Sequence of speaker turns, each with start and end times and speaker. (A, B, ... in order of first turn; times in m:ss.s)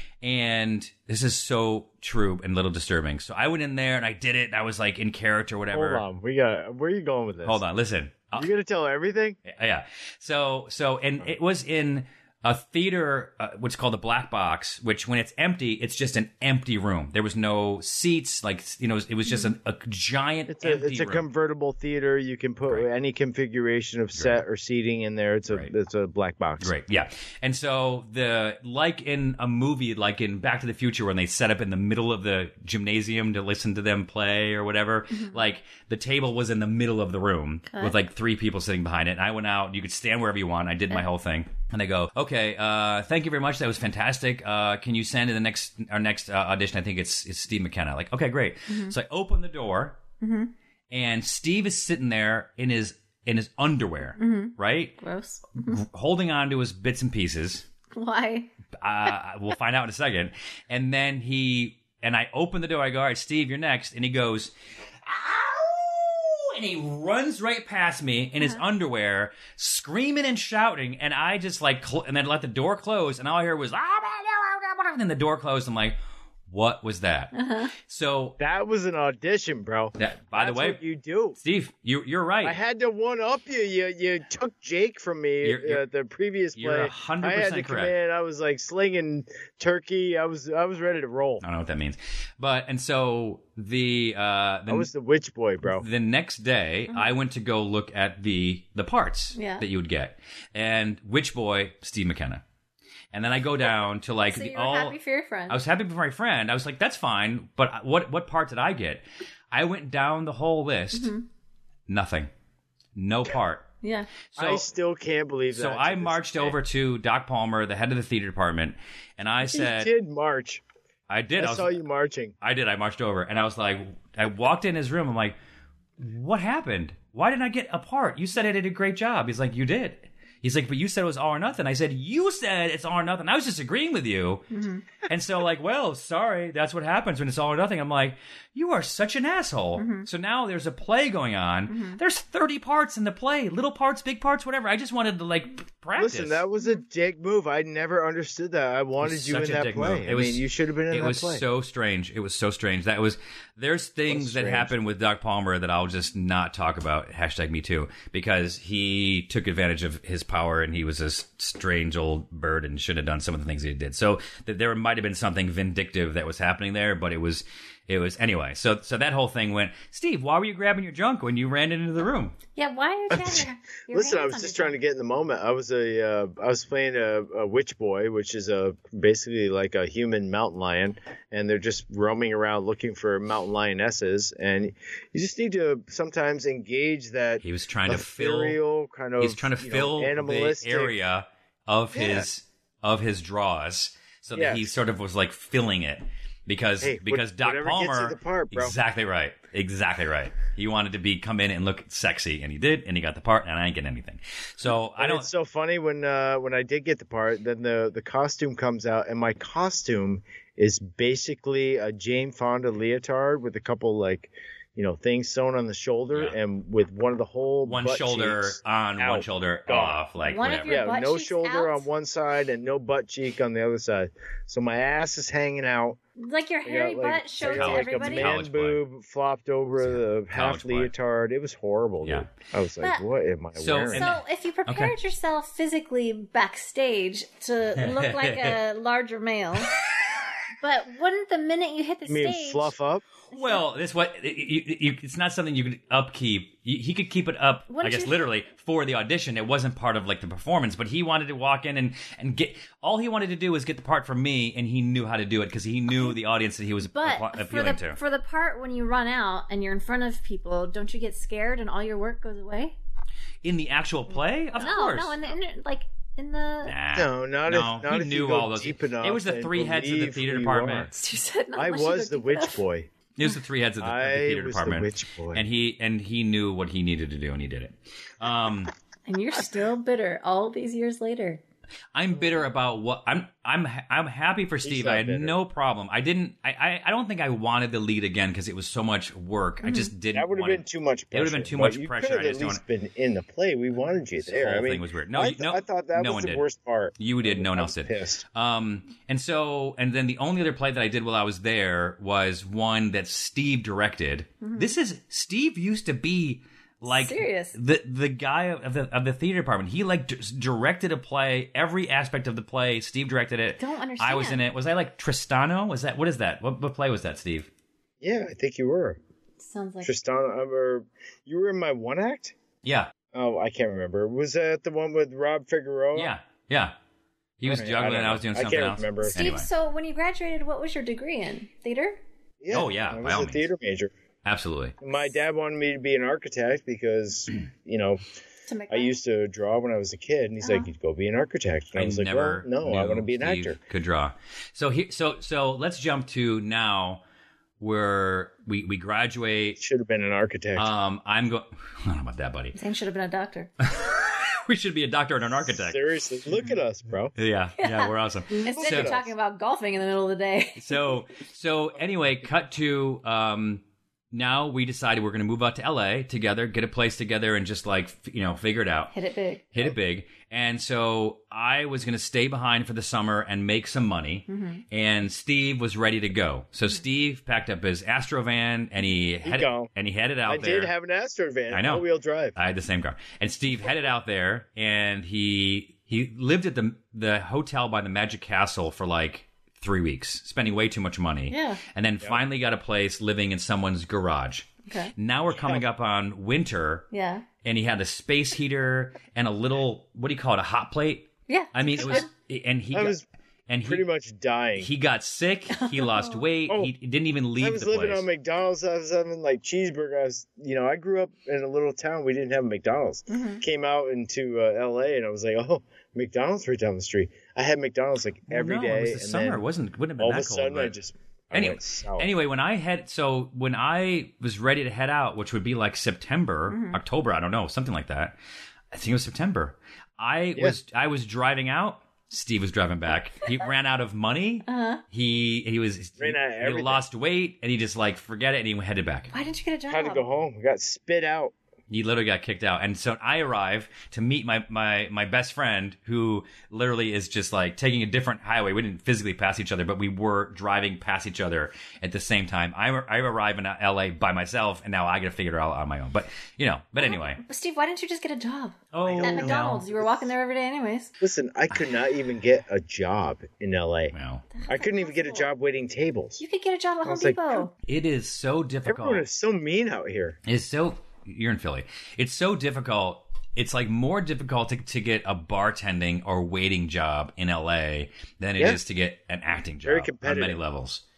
0:00.2-0:06.0 A
0:05.7-0:07.6 B
0:07.4-0:08.5 A
0:08.3-0:09.4 B
0:09.4-0:21.2 A
0:20.5-0:26.7 B
0:24.1-0:24.4 A
0:26.6-0:50.0 A
0:35.1-0:35.4 C
0:37.7-0:37.9 C
0:48.7-0:48.9 C
0:50.2-0:50.5 C
0:50.9-0:55.0 A
0:54.2-0:55.8 C
0:55.6-0:57.6 A
0:57.9-0:58.5 C
0:58.8-1:04.5 A
1:05.0-1:16.0 A
1:16.5-1:17.3 A
1:17.3-1:17.7 C
1:17.8-1:18.4 A
1:18.4-1:21.4 B
1:20.0-1:20.8 A
1:21.4-1:22.6 A
1:22.4-1:31.4 B
1:25.4-1:25.8 A
1:26.6-1:27.9 A
1:31.4-1:34.9 A
1:34.7-1:35.8 B
1:35.6-1:42.4 A
1:39.3-1:39.6 C
1:43.1-1:45.0 A
1:44.3-1:45.6 C
1:45.5-1:51.1 A
1:50.9-1:51.2 C
1:51.9-1:52.3 A
1:53.0-1:53.6 A
1:53.8-1:54.1 C
1:54.3-1:54.6 A
1:54.4-1:56.6 B
1:55.5-1:59.9 A
1:59.5-2:00.6 B
2:01.1-2:01.8 A
2:01.4-2:02.3 B
2:02.4-2:05.4 A
2:06.0-2:14.5 A
2:14.5-2:14.8 C
2:15.1-2:26.4 A
2:19.8-2:20.1 C
2:21.7-2:22.0 C
2:26.0-2:31.4 B
2:29.0-2:52.4 A
2:34.1-2:34.7 B
2:52.6-2:54.8 C
2:53.1-3:11.0 B
3:07.4-3:08.6 A
3:09.2-3:25.3 A
3:11.9-3:12.3 B
3:14.3-3:14.7 B
3:16.8-3:18.8 B
3:25.0-3:40.0 B
3:37.6-3:40.8 A
3:40.2-3:41.8 C
3:40.6-3:46.0 B
3:46.2-3:48.3 C
3:46.6-3:54.1 B
3:47.4-3:48.8 A
3:49.8-3:50.9 A
3:52.0-3:52.3 A
3:53.6-3:54.9 A
3:53.9-3:59.7 C
3:57.8-3:58.6 A
4:00.6-4:02.7 C
4:02.1-4:03.0 B
4:03.3-4:03.6 C
4:03.3-4:18.0 A
4:07.7-4:08.2 C
4:16.9-4:22.8 C
4:23.4-4:25.2 A
4:24.6-4:26.7 C
4:26.6-4:30.9 A
4:26.9-4:30.9 B
4:30.9-4:32.6 C
4:31.5-4:32.9 B
4:33.2-4:38.7 A
4:33.8-4:35.4 B
4:39.1-4:41.4 C
4:41.9-4:52.6 A
4:44.6-4:45.4 B
4:49.6-4:49.9 C
4:50.1-4:58.2 B
4:54.2-4:56.4 A
4:57.0-5:17.5 A
5:04.4-5:04.7 C
5:06.9-5:07.5 C
5:13.6-5:14.4 C
5:18.0-5:19.0 B
5:19.4-5:19.9 C
5:19.8-5:22.3 B
5:22.6-5:22.9 A
5:23.1-5:26.1 B
5:25.9-5:26.7 A
5:27.4-5:29.5 A
5:27.4-5:29.2 B
5:29.0-5:32.0 C
5:32.4-5:33.9 B
5:32.5-5:33.4 A
5:34.2-5:34.8 A
5:34.8-5:38.0 B
5:38.5-5:39.0 C
5:38.7-5:43.6 B
5:40.4-5:40.7 C
5:41.8-5:47.0 A
5:47.6-5:49.6 A
5:49.6-5:50.7 B
5:50.6-5:52.5 A
5:52.5-5:53.5 C
5:53.6-5:55.8 A
5:55.4-5:57.1 B
5:57.2-5:58.9 A
5:57.6-6:00.8 C
5:58.3-5:59.1 B
6:00.6-6:08.9 A
6:08.9-6:09.5 C
6:09.5-6:20.7 A
6:14.3-6:14.6 C
6:19.2-6:19.7 B
6:20.2-6:22.4 B
6:21.5-6:21.8 A
6:22.4-6:36.9 A
6:31.3-6:31.6 C
6:34.7-6:34.9 C
6:35.3-6:35.6 B
6:36.9-6:37.2 C
6:37.4-6:43.8 A
6:41.3-6:42.1 C
6:42.7-6:43.0 B
6:43.6-6:44.7 B
6:44.6-6:48.0 A
6:45.6-6:46.2 C
6:47.4-6:59.4 B
6:53.1-6:53.4 C
6:58.3-7:00.7 A
7:00.0-7:02.1 B
7:01.3-7:08.2 A
7:06.5-7:06.8 C
7:08.7-7:19.1 A
7:14.5-7:14.8 C
7:16.0-7:16.8 B
7:19.1-7:20.0 C
7:19.7-7:21.3 B
7:21.7-7:37.2 A
7:36.8-7:40.9 C
7:38.7-7:39.6 A
7:38.8-7:40.1 B
7:41.0-7:43.9 B
7:43.9-7:44.2 A
7:44.3-7:45.3 C
7:44.5-7:46.2 B
7:46.2-7:47.5 C
7:46.8-7:47.5 B
7:47.6-7:49.0 A
7:48.6-7:50.2 B
7:50.2-8:00.8 A
7:59.6-8:00.4 B